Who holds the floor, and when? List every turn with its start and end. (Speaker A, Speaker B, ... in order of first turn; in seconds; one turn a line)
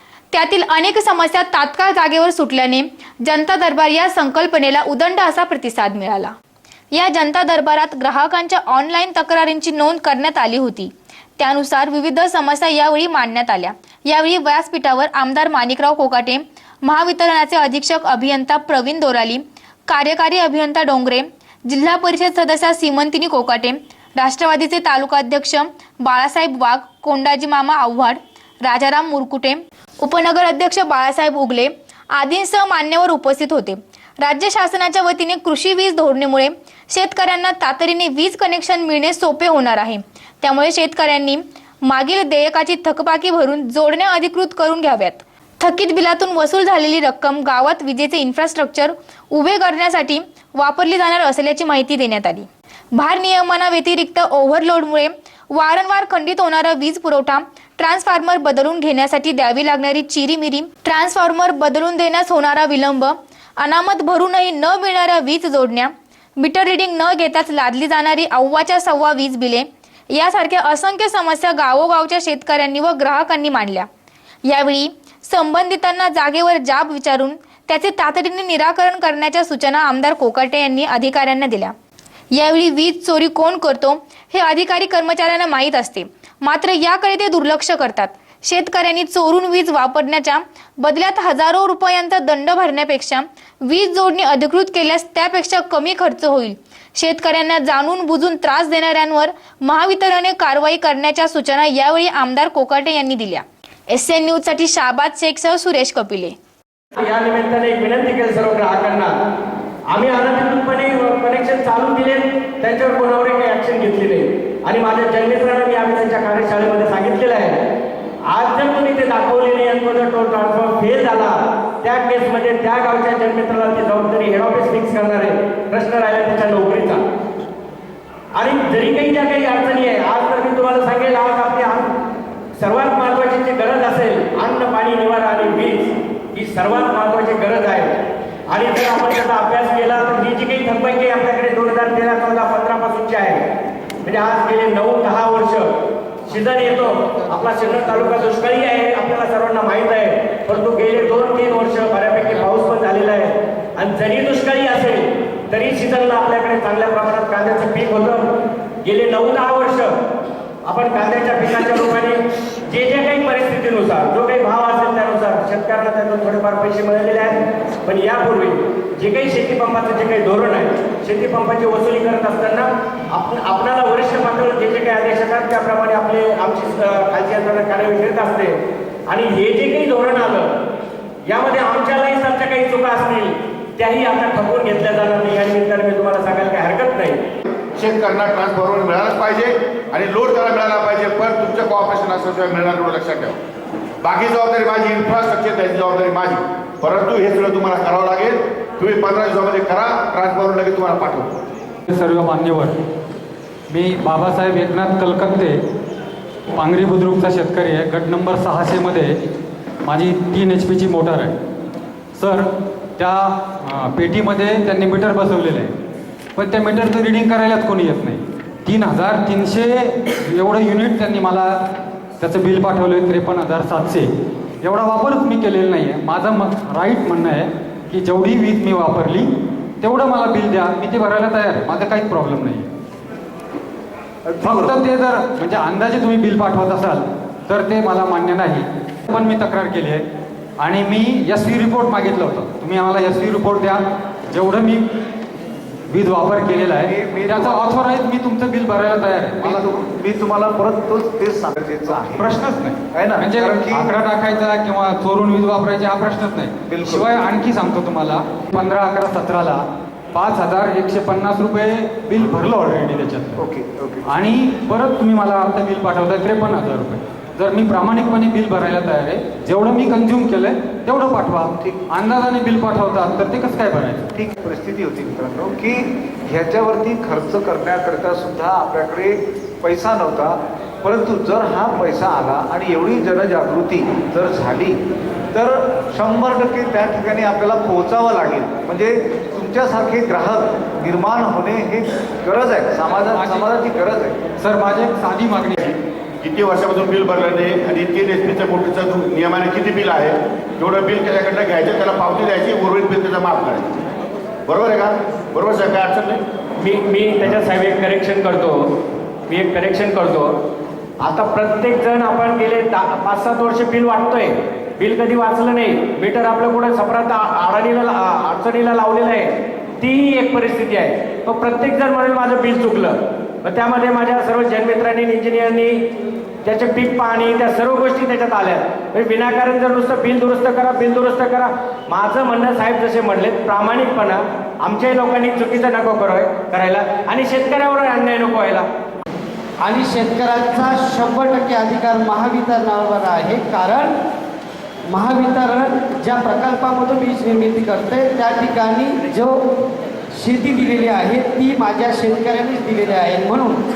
Speaker A: 0.3-6.3
Speaker A: 6.9-73.9
Speaker A: 74.5-81.7
Speaker A: 82.3-106.3
Speaker B: 107.0-109.1
Speaker B: 109.9-117.6
Speaker B: 118.3-127.0
Speaker B: 128.3-131.9
Speaker B: 132.6-143.4
Speaker B: 144.0-145.7
Speaker B: 146.3-158.3
Speaker B: 158.8-159.9
Speaker B: 160.7-178.6
Speaker B: 179.1-180.6
Speaker B: 181.3-187.3
Speaker C: 187.7-193.4
Speaker C: 194.0-201.3
Speaker D: 201.9-202.7
Speaker D: 203.7-205.6
Speaker D: 206.6-209.2
Speaker D: 209.8-211.4
Speaker D: 212.2-215.7
Speaker D: 216.4-221.6
Speaker D: 222.2-224.1
Speaker D: 224.6-232.7
Speaker E: 234.3-234.8
Speaker D: 234.4-240.0
Speaker D: 240.6-244.8
Speaker D: 245.9-249.7
Speaker E: 246.8-247.8
Speaker E: 249.4-254.0
Speaker D: 251.9-263.4
Speaker E: 256.7-257.2
Speaker E: 263.4-264.1
Speaker D: 264.1-274.1
Speaker E: 271.6-271.9
Speaker E: 274.1-284.8
Speaker E: 285.3-294.2
Speaker D: 293.1-293.6
Speaker D: 294.4-295.6
Speaker C: 295.6-303.8
Speaker C: 304.5-306.2
Speaker B: 306.6-308.6
Speaker B: 309.3-310.3
Speaker B: 311.0-325.8
Speaker B: 326.4-338.7
Speaker F: 339.6-343.9
Speaker F: 344.9-349.4
Speaker F: 350.2-353.6